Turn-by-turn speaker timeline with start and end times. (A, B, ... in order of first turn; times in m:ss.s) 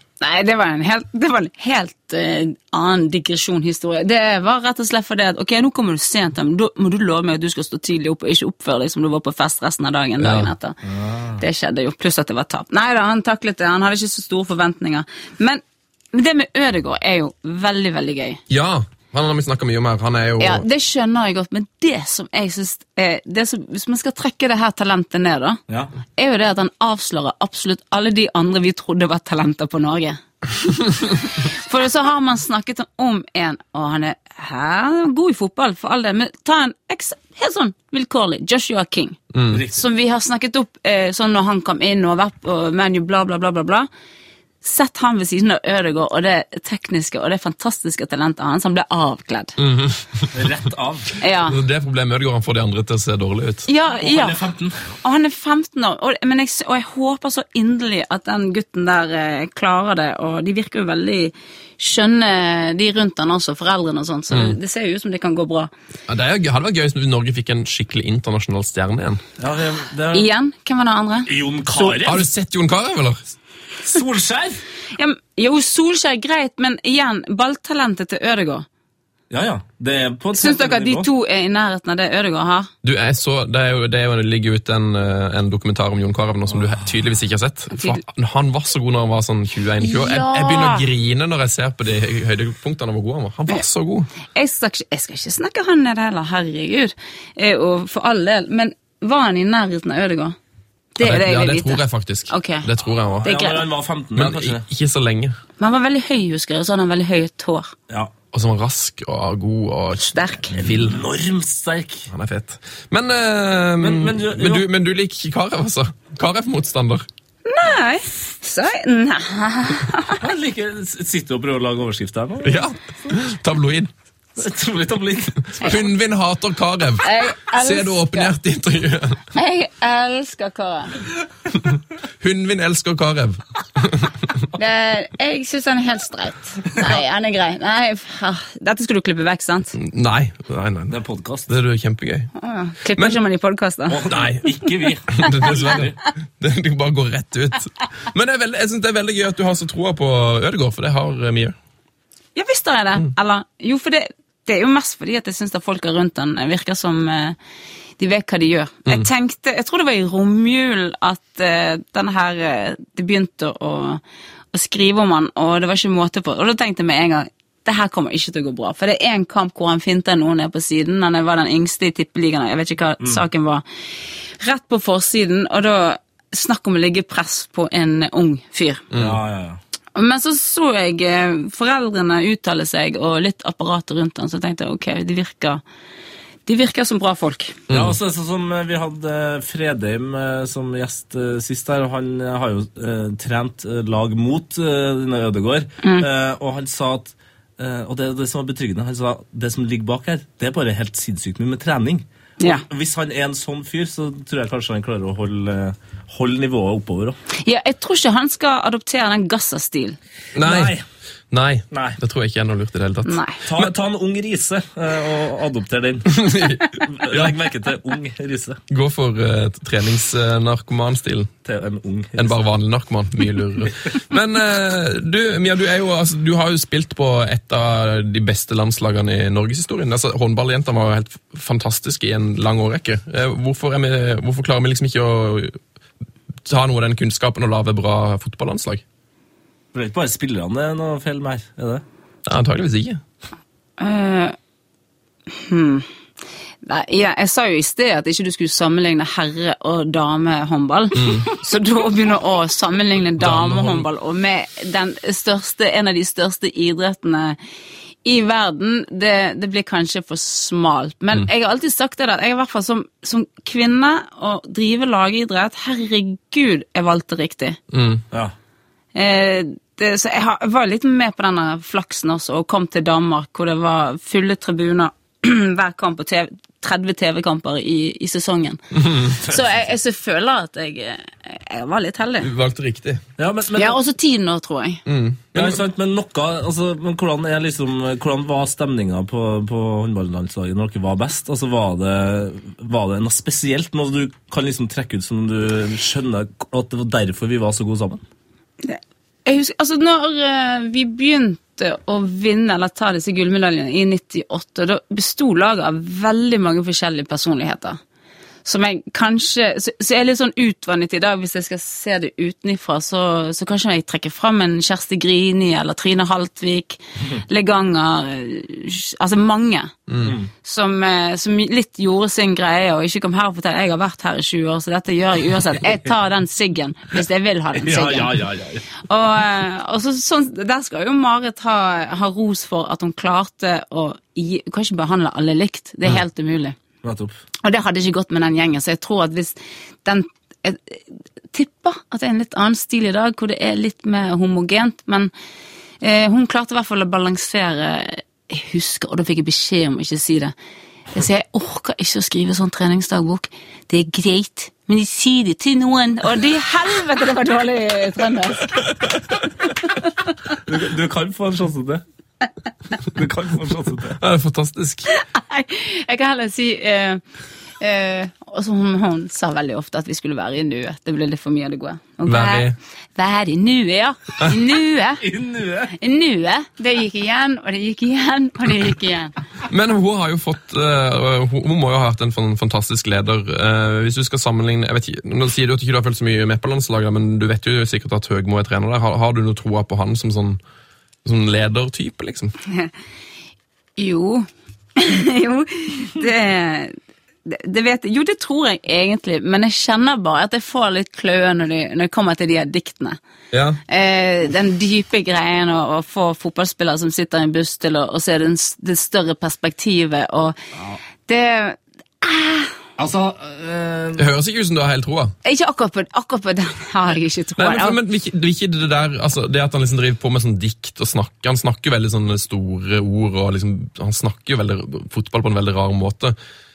0:00.2-0:10.8 A
0:10.2-0:10.5 B
0:10.8-0:11.4 C
0:11.4-0:15.6 A
0:16.1-0:18.4 A
0:18.5-0:20.6 B
0:20.4-0:25.6 A
0:26.2-0:30.2 A
0:30.8-0:39.2 A
0:39.3-0:39.6 B
0:39.5-0:39.8 C
0:39.7-0:43.9 A
0:44.6-0:49.6 A
0:49.6-0:50.3 B
0:50.3-0:51.1 C
0:51.2-0:51.6 A
0:51.4-0:53.7 B
0:53.7-0:54.4 A
0:54.0-0:54.8 C
0:55.0-1:05.7 A
1:04.3-1:04.6 B
1:06.1-1:09.2 B
1:09.4-1:10.3 C
1:10.1-1:12.0 A
1:11.3-1:12.2 C
1:12.0-1:13.2 B
1:13.8-1:14.6 C
1:15.0-1:18.6 A
1:19.3-1:21.1 C
1:20.4-1:22.7 A
1:22.8-1:34.1 B
1:27.7-1:28.0 A
1:29.8-1:30.8 A
1:34.3-1:40.4 A
1:41.0-1:42.7 A
1:41.0-1:43.3 B
1:43.2-1:44.6 C
1:43.2-1:43.6 A
1:44.2-1:45.4 B
1:45.6-1:47.7 A
1:48.3-1:51.0 B
1:50.0-1:50.6 A
1:50.5-1:52.1 C
1:52.1-1:57.0 B
1:53.8-1:54.7 C
1:57.4-2:00.2 A
2:00.2-2:02.7 C
2:02.4-2:03.9 B
2:04.4-2:05.8 C
2:05.6-2:09.2 B
2:07.0-2:08.4 A
2:09.3-2:11.0 A
2:11.6-2:14.4 B
2:14.6-2:19.8 A
2:19.7-2:22.3 B
2:20.9-2:21.5 C
2:22.4-2:24.0 A
2:23.9-2:26.0 C
2:24.1-2:24.6 B
2:25.1-2:31.6 B
2:32.3-2:37.4 A
2:38.0-2:44.0 A
2:44.5-2:53.6 A
2:54.4-2:58.8 A
2:58.9-2:59.2 B
2:59.0-2:59.6 C
2:59.9-3:05.6 A
3:06.4-3:07.6 A
3:07.7-3:08.0 B
3:07.7-3:27.2 C
3:15.8-3:16.1 A
3:22.4-3:22.6 A
3:27.4-3:30.0 A
3:30.3-3:30.7 B
3:30.4-3:30.8 C
3:31.3-3:33.7 B
3:31.7-3:32.0 C
3:33.0-3:33.4 A
3:33.4-3:36.3 C
3:36.0-3:37.4 B
3:36.9-3:38.6 C
3:38.7-3:41.3 B
3:41.4-3:42.4 C
3:42.2-3:55.6 B
3:56.4-3:58.8 B
3:59.7-4:01.8 C
4:02.2-4:03.0 B
4:03.8-4:04.4 A
4:05.3-4:05.8 A
4:06.6-4:17.4 A
4:11.0-4:11.3 B
4:13.2-4:13.8 B
4:18.0-4:27.6 A
4:27.7-4:28.0 B
4:28.9-4:42.3 A
4:38.7-4:39.1 B
4:39.2-4:39.5 C
4:42.2-4:43.0 B
4:43.2-4:43.8 C
4:43.6-4:44.8 A
4:44.8-4:45.6 B
4:45.3-4:58.0 C
4:58.6-5:07.8 A
5:08.4-5:19.7 A
5:19.9-5:20.2 B
5:20.0-5:20.3 C
5:20.4-5:28.2 A
5:27.6-5:28.6 C
5:28.9-5:36.6 A
5:36.8-5:37.1 C
5:37.4-5:45.1 A
5:45.8-5:50.3 A
5:50.9-5:58.7 A
6:00.4-6:01.8 C
6:02.9-6:04.0 C
6:04.0-6:04.9 B
6:04.9-6:07.0 A
6:07.6-6:15.0 A
6:12.0-6:12.6 B
6:15.0-6:15.7 C
6:15.8-6:19.1 A
6:19.5-6:30.4 B
6:31.0-6:32.3 B
6:33.8-6:43.0 A
6:43.3-6:43.6 B
6:43.7-6:50.4 A
6:51.0-6:52.6 A
6:52.8-6:54.0 C
6:54.0-6:55.1 B
6:55.2-6:57.8 A
6:57.4-7:06.2 B